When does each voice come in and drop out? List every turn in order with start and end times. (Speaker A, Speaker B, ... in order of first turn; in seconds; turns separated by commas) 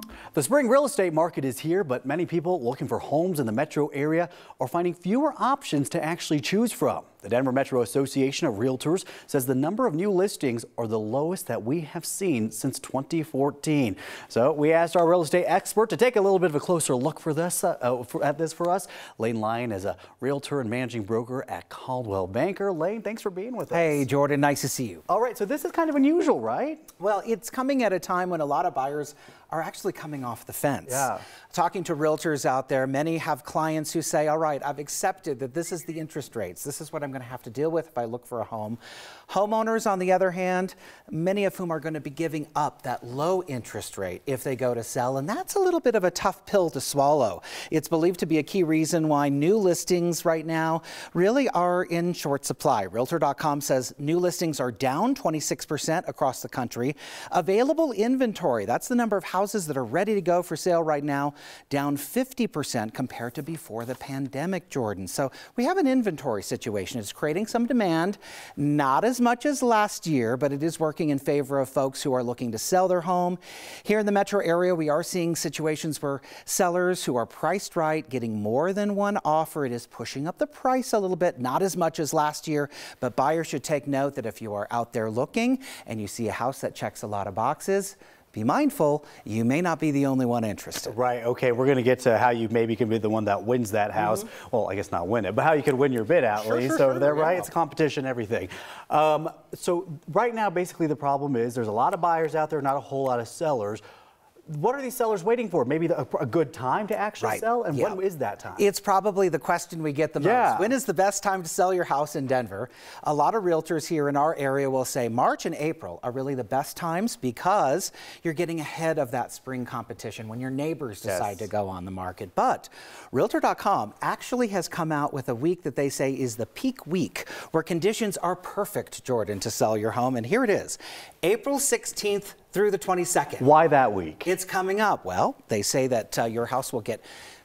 Speaker A: 0.3-24.1, Speaker B: 23.7-25.1, Speaker A: 25.1-26.9, Speaker B: 27.0-90.9, Speaker A: 30.9-31.2, Speaker A: 90.9-103.8, Speaker B: 94.0-94.3, Speaker B: 96.4-97.5, Speaker A: 104.5-108.7, Speaker B: 107.2-108.0, Speaker B: 108.6-133.5, Speaker A: 110.2-110.7, Speaker A: 121.0-121.5, Speaker A: 133.4-134.3, Speaker B: 134.2-137.0